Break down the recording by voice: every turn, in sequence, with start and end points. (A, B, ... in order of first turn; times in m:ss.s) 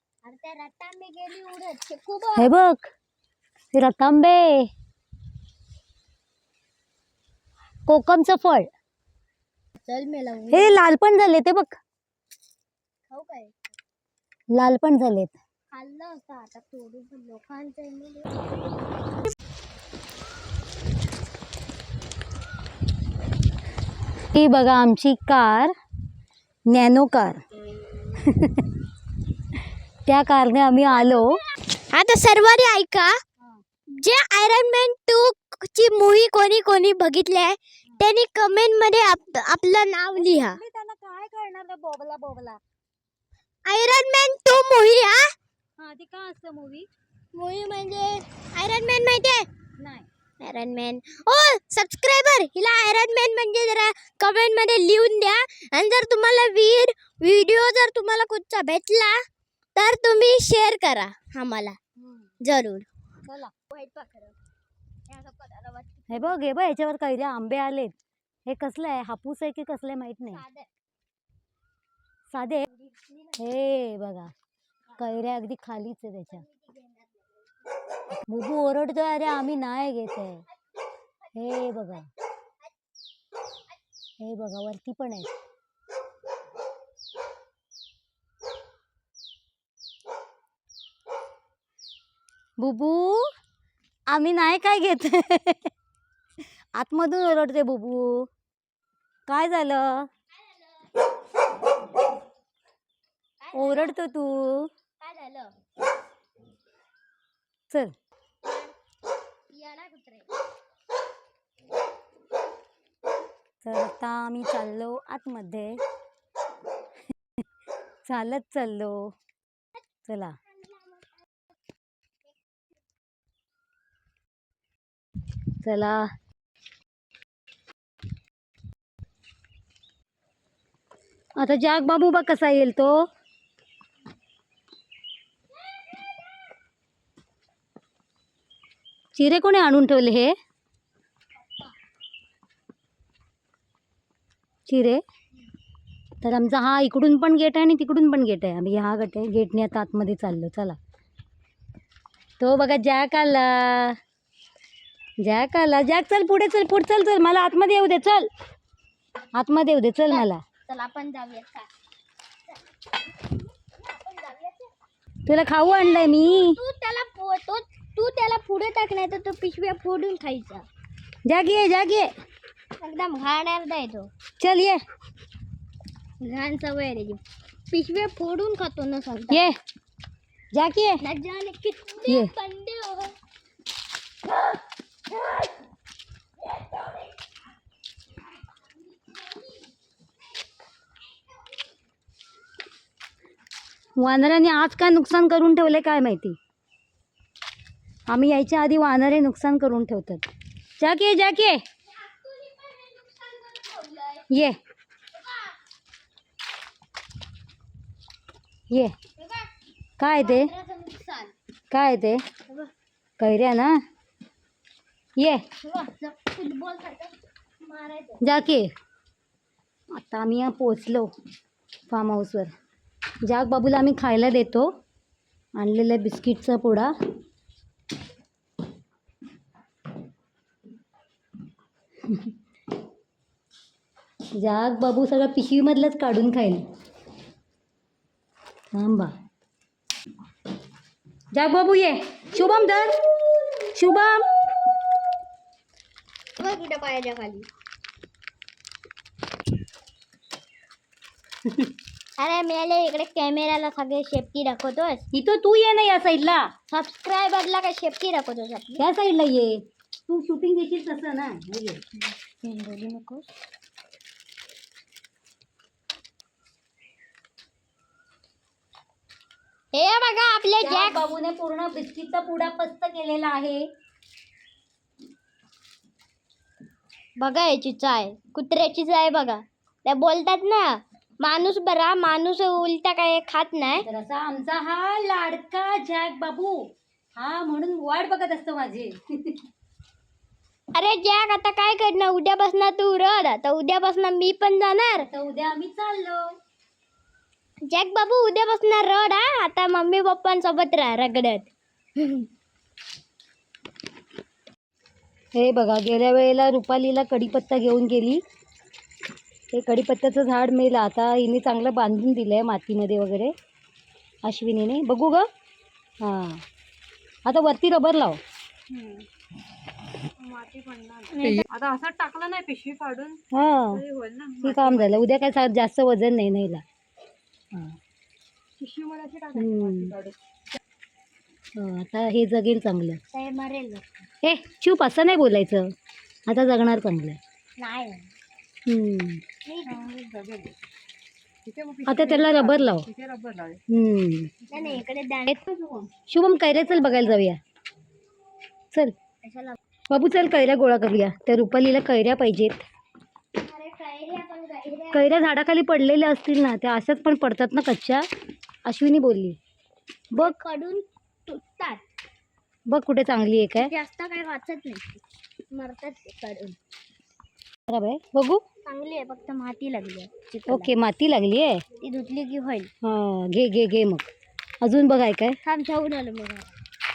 0:00.2-0:02.5 A
0:02.4-0:02.9 B
0:03.7-0:04.7 B
0:07.9-0:08.7 B
0:09.8-0:10.8 A
0:10.5-0:11.8 B
0:13.1-0:13.5 A
0:14.5-0:15.3 B
0:15.7-0:18.5 A
0:24.3-0:25.7 B
0:26.7-0:27.4 B
0:28.2-0:28.7 B
0:30.1-0:31.4 B
0:31.8-0:33.2 A
0:33.9-0:40.6 A
0:40.1-0:42.6 B
0:43.6-0:45.3 A
0:45.8-0:46.9 B
0:47.3-0:49.5 A
0:49.8-0:50.1 B
0:50.4-0:59.2 A
0:59.8-1:01.8 A
1:02.0-1:02.3 B
1:02.4-1:02.9 A
1:03.2-1:03.5 B
1:03.7-1:04.4 A
1:05.1-1:06.4 A
1:06.1-1:07.9 B
1:08.4-1:10.4 B
1:10.3-1:10.7 A
1:12.3-1:12.7 B
1:12.9-1:13.3 A
1:13.4-1:14.3 B
1:15.0-1:16.4 B
1:16.3-1:17.1 A
1:18.2-1:20.4 B
1:21.3-1:22.1 B
1:24.2-1:25.3 B
1:32.6-1:33.2 B
1:34.1-1:35.7 B
1:36.8-1:38.3 B
1:39.3-1:40.1 B
1:43.4-1:44.0 A
1:43.5-1:44.7 B
1:45.0-1:45.5 A
1:48.4-1:48.7 A
1:49.5-1:50.3 A
1:53.6-1:55.8 B
1:58.1-1:59.1 B
2:00.1-2:00.4 B
2:05.6-2:06.1 B
2:11.4-2:13.0 B
2:19.1-2:20.3 B
2:24.7-2:25.0 B
2:26.2-2:30.8 B
2:32.4-2:34.0 B
2:35.2-2:38.3 B
2:39.3-2:40.4 B
2:40.1-2:41.7 A
2:43.3-2:44.7 A
2:45.2-2:46.6 B
2:45.6-2:50.7 A
2:51.3-2:52.1 B
2:52.8-2:54.1 A
2:54.4-2:54.8 B
2:56.2-2:57.2 A
2:57.7-2:59.5 A
2:59.3-2:59.6 B
3:00.5-3:01.0 B
3:01.0-3:03.1 A
3:14.0-3:16.4 B
3:18.1-3:20.2 B
3:20.8-3:21.6 B
3:22.0-3:24.3 A
3:24.3-3:24.6 B
3:25.2-3:25.5 A
3:28.7-3:28.9 B
3:29.2-3:29.5 A
3:30.0-3:30.5 B
3:30.0-3:31.3 A
3:31.7-3:32.2 B
3:33.2-3:33.8 B
3:35.2-3:35.4 B
3:35.6-3:38.2 A
3:38.2-3:38.7 B
3:39.9-3:41.1 B
3:41.9-3:42.5 B
3:43.2-3:44.7 B
3:45.6-3:46.9 B
3:52.1-3:52.3 B
3:54.3-3:56.6 B
3:58.7-3:59.1 B
4:01.3-4:03.0 B
4:03.7-4:04.3 B
4:06.4-4:07.5 A
4:12.2-4:15.0 A
4:15.1-4:16.5 B
4:16.7-4:18.8 A
4:18.8-4:21.8 B
4:22.0-4:23.2 A
4:29.7-4:31.1 A
4:30.6-4:33.7 B
4:37.2-4:43.9 A
4:43.8-4:49.4 B
4:50.7-4:55.1 A
4:55.0-4:56.3 B
4:57.7-5:02.3 A
5:05.3-5:08.2 B
5:09.5-5:13.3 B
5:14.2-5:15.3 B
5:16.0-5:16.4 B
5:17.3-5:18.2 B
5:18.7-5:19.1 C
5:20.2-5:25.1 C
5:21.2-5:21.4 A
5:23.3-5:23.8 B
5:24.4-5:26.6 B
5:27.5-5:27.8 B
5:28.6-5:30.2 C
5:29.4-5:29.9 B
5:31.6-5:33.0 B
5:33.1-5:34.0 A
5:34.2-5:35.7 B
5:36.3-5:37.2 B
5:37.6-5:38.1 A
5:38.7-5:39.2 B
5:39.4-5:39.8 A
5:39.7-5:40.6 C
5:41.4-5:43.6 C
5:41.9-5:42.8 B
5:43.7-5:44.3 B
5:44.5-5:44.8 C
5:44.5-5:45.9 A
5:46.1-5:47.4 B
5:46.5-5:47.2 A
5:49.2-5:49.6 A
5:49.9-5:52.6 B
5:53.4-5:55.2 A
5:54.9-5:58.1 B
5:58.6-5:59.4 B
6:00.1-6:00.4 B
6:00.1-6:01.8 A
6:02.7-6:03.7 B
6:03.6-6:05.0 A
6:05.5-6:06.6 A
6:07.7-6:08.4 B
6:08.7-6:10.7 A
6:10.5-6:11.6 B
6:11.8-6:12.7 A
6:12.8-6:14.1 B
6:14.6-6:15.4 B
6:15.4-6:16.6 A